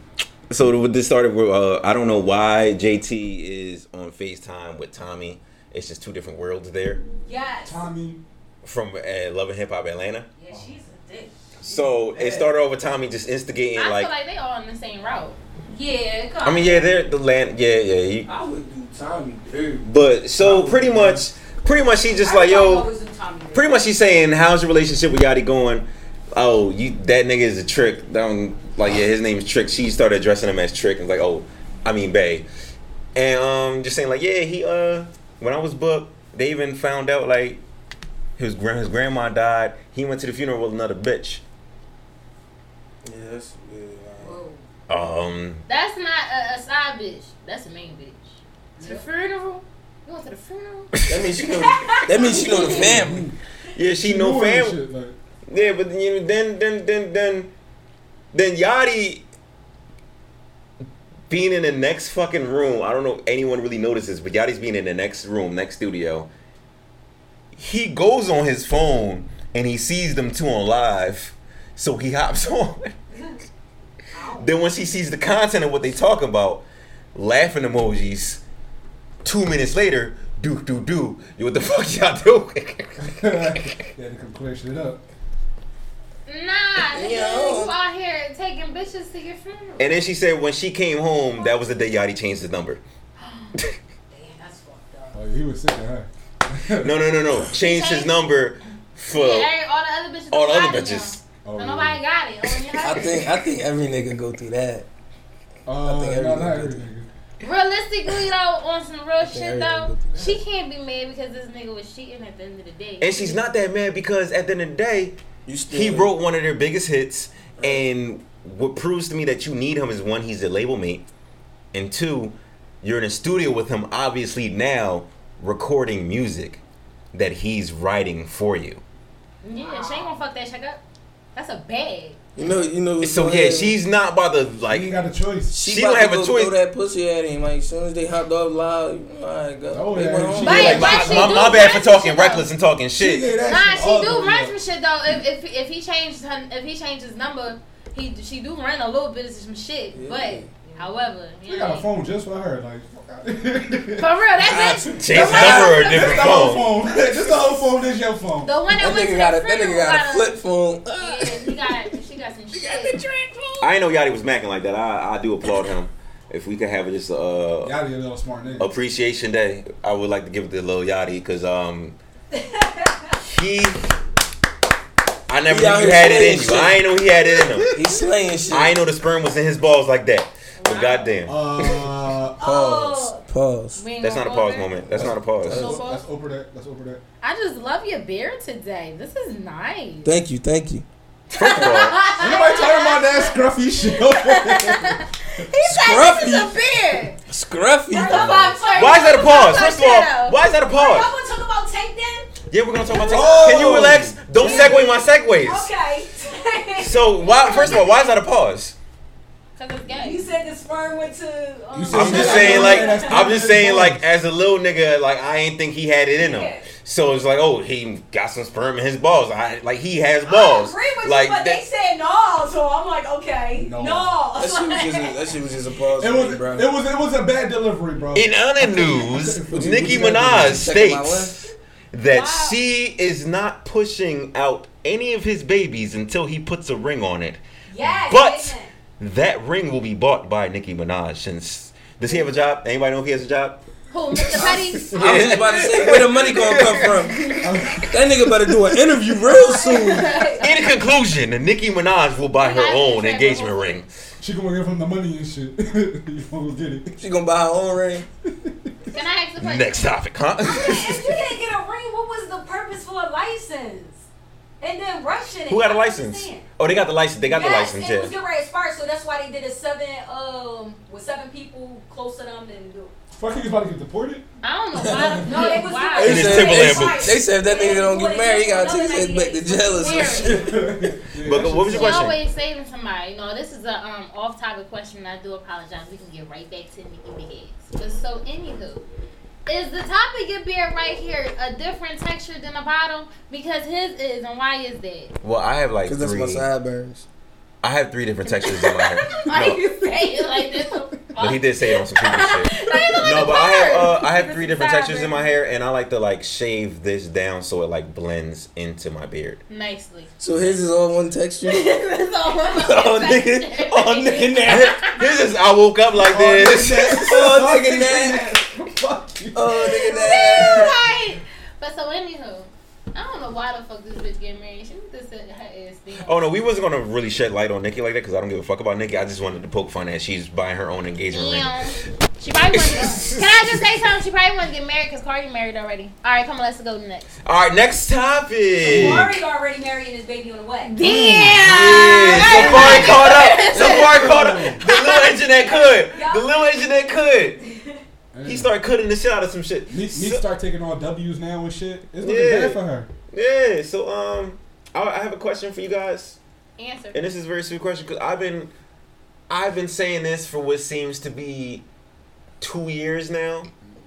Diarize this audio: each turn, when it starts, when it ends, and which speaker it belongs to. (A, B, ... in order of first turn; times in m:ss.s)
0:00.5-0:07.0 A
0:07.2-0:07.9 B
0:07.6-0:08.2 C
0:08.6-0:10.3 A
0:10.4-0:11.3 B
0:11.6-0:14.1 A
0:13.8-0:15.4 D
0:15.7-0:16.8 B
0:16.4-0:16.8 D
0:16.4-0:18.3 A
0:18.2-0:19.9 E
0:19.8-0:22.9 A
0:20.4-0:21.2 C
0:22.2-0:23.6 B
0:23.5-0:32.5 A
0:33.1-0:37.6 A
0:38.4-0:41.4 A
0:43.0-0:44.4 E
0:44.2-0:44.6 B
0:44.9-0:45.6 A
0:45.7-0:50.9 D
0:51.1-0:53.3 E
0:51.7-0:52.4 B
0:52.6-0:53.3 C
0:53.8-0:54.8 A
0:54.0-0:55.1 C
0:55.5-0:57.5 A
0:58.3-0:59.2 A
1:01.3-1:06.3 A
1:07.5-1:12.9 A
1:14.2-1:14.4 B
1:14.3-1:18.4 A
1:19.2-1:23.3 A
1:23.1-1:25.0 C
1:26.3-1:30.0 D
1:26.9-1:27.7 E
1:29.8-1:32.8 A
1:33.2-1:33.5 D
1:34.1-1:35.1 D
1:35.1-1:37.2 C
1:36.8-1:39.5 A
1:37.6-1:38.1 D
1:39.1-1:43.2 D
1:40.3-1:41.2 A
1:41.4-1:42.0 C
1:42.8-1:44.9 E
1:45.6-1:47.1 C
1:45.8-1:46.8 E
1:47.4-1:53.4 D
1:49.2-1:50.4 E
1:53.0-1:55.2 A
1:55.4-1:56.1 E
1:55.7-2:01.0 A
1:57.6-1:57.8 E
2:01.7-2:06.6 A
2:07.1-2:08.8 A
2:09.4-2:10.8 D
2:09.4-2:10.1 B
2:11.3-2:12.2 D
2:12.4-2:13.7 E
2:13.0-2:14.9 A
2:14.7-2:15.5 C
2:15.5-2:21.2 E
2:15.6-2:16.6 A
2:19.7-2:21.4 C
2:20.4-2:22.5 D
2:20.4-2:23.3 A
2:23.0-2:24.5 C
2:23.5-2:31.8 D
2:29.9-2:30.5 E
2:31.4-2:38.5 C
2:34.0-2:36.2 D
2:34.4-2:36.8 A
2:36.9-2:37.5 E
2:38.4-2:40.3 D
2:38.7-2:41.8 E
2:41.0-2:43.0 D
2:42.5-2:43.6 E
2:43.6-2:47.8 A
2:47.6-2:48.7 C
2:48.6-2:52.0 A
2:53.2-2:53.9 A
2:55.3-2:57.8 A
2:55.5-2:56.8 E
2:57.7-2:58.8 E
2:58.5-3:01.9 A
3:00.6-3:01.1 B
3:01.2-3:02.7 C
3:02.4-3:03.2 B
3:02.4-3:03.8 E
3:03.8-3:05.0 D
3:04.0-3:05.6 A
3:04.9-3:07.0 C
3:05.4-3:05.8 E
3:05.5-3:06.0 D
3:07.2-3:10.1 D
3:10.0-3:10.8 E
3:11.3-3:12.0 A
3:11.4-3:13.2 D
3:12.1-3:14.9 C
3:14.2-3:17.1 D
3:15.6-3:16.5 E
3:17.3-3:18.5 E
3:17.9-3:19.4 B
3:18.0-3:20.4 D
3:18.7-3:21.1 A
3:20.5-3:22.3 B
3:22.5-3:25.7 A
3:23.1-3:23.6 B
3:23.1-3:24.7 C
3:24.3-3:28.1 B
3:26.8-3:28.8 A
3:29.6-3:30.3 D
3:29.9-3:33.1 B
3:31.7-3:34.0 C
3:31.9-3:33.0 D
3:31.9-3:41.6 A
3:36.2-3:36.7 B
3:40.2-3:45.2 B
3:43.6-3:44.2 C
3:44.4-3:46.7 E
3:46.0-3:50.7 C
3:48.1-3:57.4 A
3:49.5-3:51.4 E
3:52.1-3:52.6 B
3:57.7-3:58.7 B
3:58.1-4:03.6 A
4:03.9-4:05.1 D
4:04.2-4:08.3 C
4:04.9-4:07.2 E
4:04.9-4:06.9 A
4:07.9-4:10.2 E
4:09.3-4:10.4 B
4:09.6-4:10.3 D
4:10.4-4:13.9 A
4:12.4-4:13.8 D
4:14.2-4:17.0 C
4:17.0-4:18.0 E
4:18.9-4:19.9 D
4:19.4-4:21.1 A
4:20.4-4:24.0 B
4:24.6-4:26.4 B
4:25.5-4:28.2 A
4:27.3-4:32.9 B
4:33.1-4:34.2 C
4:34.4-4:36.4 D
4:34.8-4:40.8 E
4:35.2-4:40.5 B
4:36.0-4:37.2 A
4:39.8-4:40.4 D
4:40.4-4:42.1 C
4:41.2-4:42.2 A
4:41.7-4:48.8 D
4:49.4-4:55.1 D
4:55.2-4:56.5 A
4:55.8-4:57.0 E
4:57.6-4:59.6 A
4:58.6-5:00.5 B
4:59.2-5:05.3 D
5:01.2-5:09.4 A
5:09.5-5:10.1 D
5:10.2-5:11.9 E
5:11.5-5:15.1 D
5:12.6-5:17.4 A
5:16.0-5:20.7 C
5:16.9-5:18.3 E
5:19.3-5:20.7 E
5:19.9-5:26.2 D
5:26.0-5:31.6 A
5:31.1-5:37.1 D
5:32.5-5:33.7 A
5:37.2-5:39.1 A
5:38.6-5:39.1 C
5:38.6-5:43.3 B
5:40.8-5:43.9 D
5:40.8-5:47.4 A
5:42.1-5:44.6 C
5:44.6-5:45.2 D
5:45.7-5:46.4 B
5:48.1-5:48.5 C
5:48.2-5:50.2 A
5:49.7-5:52.9 C
5:52.0-5:56.2 A
5:56.6-5:57.0 D
5:56.9-5:58.5 A
5:59.3-6:01.6 A
6:02.4-6:03.5 A